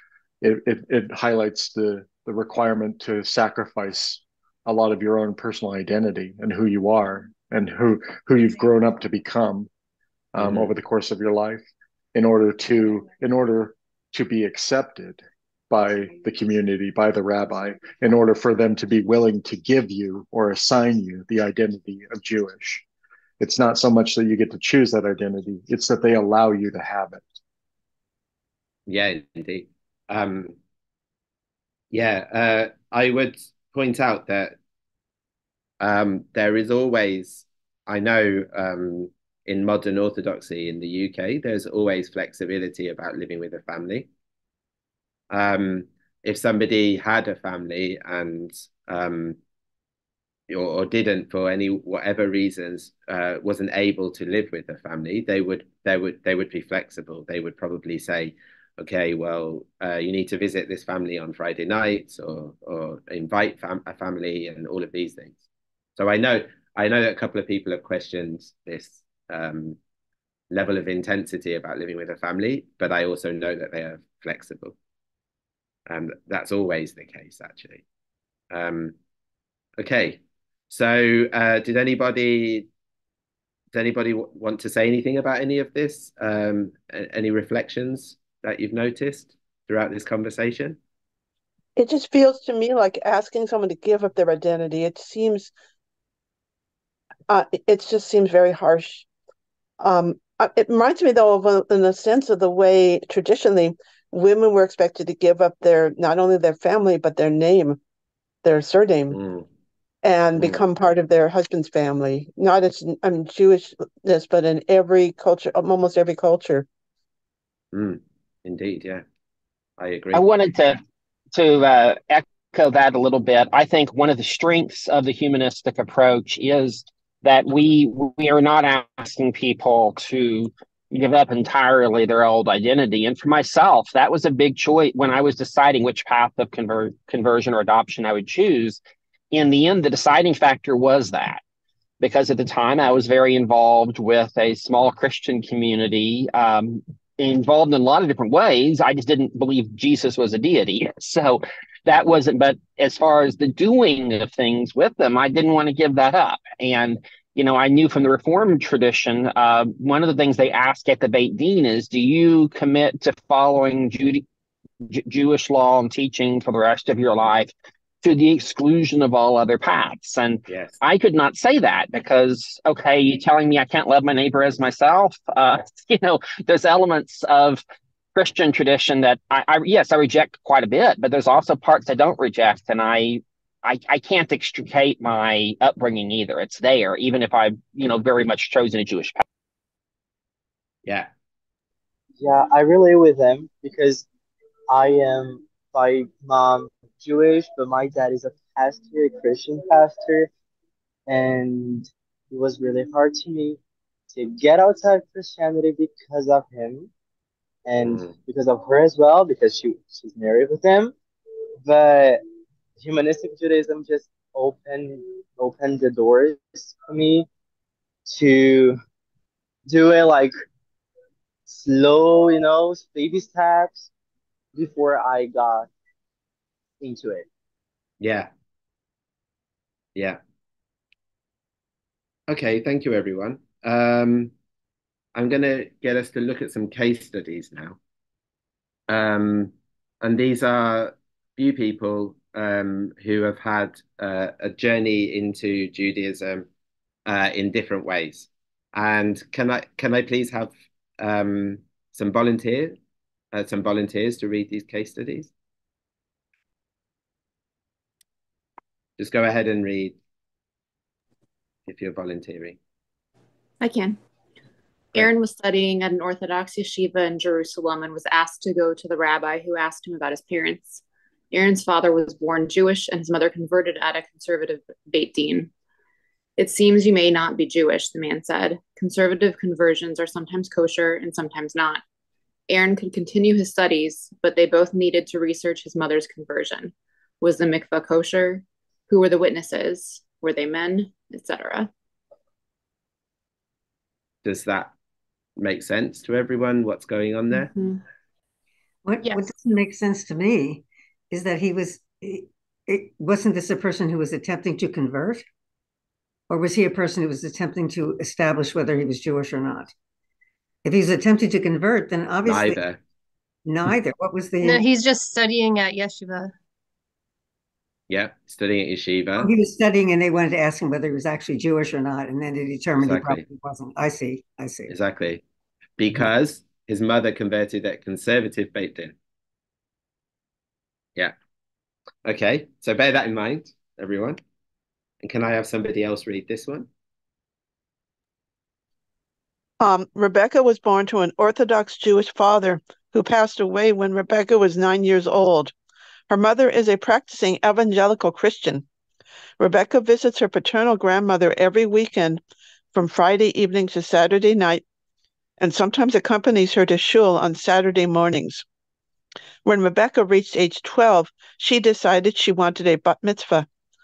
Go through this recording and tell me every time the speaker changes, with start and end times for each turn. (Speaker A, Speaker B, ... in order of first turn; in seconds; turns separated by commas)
Speaker A: 0.4-9.7, Speaker A: 10.3-22.8, Speaker B: 10.4-10.7, Speaker A: 23.4-27.4, Speaker B: 28.9-30.6, Speaker B: 31.9-34.5, Speaker B: 35.8-44.1, Speaker B: 45.3-49.4, Speaker B: 50.5-65.4, Speaker B: 66.0-69.8, Speaker B: 70.5-74.8, Speaker B: 75.9-77.8, Speaker B: 78.5-78.9, Speaker B: 79.8-82.7, Speaker B: 83.7-90.8, Speaker C: 91.8-95.5, Speaker C: 97.3-99.0, Speaker C: 99.8-107.8, Speaker C: 108.4-109.2, Speaker B: 109.1-109.5, Speaker C: 110.0-116.7, Speaker B: 117.7-119.0, Speaker B: 119.8-120.2, Speaker D: 120.1-120.8, Speaker D: 121.3-138.8, Speaker D: 139.3-141.4, Speaker D: 142.0-164.2, Speaker D: 164.8-177.6, Speaker B: 170.5-170.8, Speaker D: 178.1-189.2, Speaker E: 192.2-194.1, Speaker E: 194.7-200.3, Speaker E: 201.1-203.6, Speaker E: 204.1-206.9, Speaker E: 207.7-210.9, Speaker B: 207.8-208.1, Speaker E: 211.6-212.2, Speaker E: 212.8-217.3, Speaker E: 218.0-218.8, Speaker E: 219.7-220.3, Speaker E: 221.5-223.9, Speaker E: 224.5-225.7, Speaker E: 226.8-227.2, Speaker B: 228.0-228.3, Speaker B: 232.3-234.3, Speaker B: 235.1-237.8, Speaker B: 238.9-246.4, Speaker B: 247.1-252.8, Speaker B: 253.3-255.3, Speaker B: 259.0-260.0, Speaker B: 261.7-262.6, Speaker F: 263.6-264.0, Speaker F: 264.9-275.5, Speaker F: 276.4-281.8, Speaker F: 282.5-291.7, Speaker B: 294.2-294.7, Speaker B: 295.4-297.5, Speaker G: 298.8-305.2, Speaker H: 299.0-299.3, Speaker G: 306.3-309.7, Speaker G: 310.6-312.6, Speaker B: 312.2-312.8, Speaker G: 313.4-314.6, Speaker H: 314.4-316.3, Speaker B: 317.9-319.3, Speaker G: 319.2-324.7, Speaker B: 322.8-323.2, Speaker B: 324.7-325.2, Speaker B: 325.8-328.9, Speaker B: 332.0-334.2, Speaker B: 335.0-336.7, Speaker C: 339.6-345.5, Speaker C: 346.1-348.6, Speaker C: 349.4-352.2, Speaker C: 352.7-354.6, Speaker C: 355.4-358.4, Speaker C: 359.4-363.5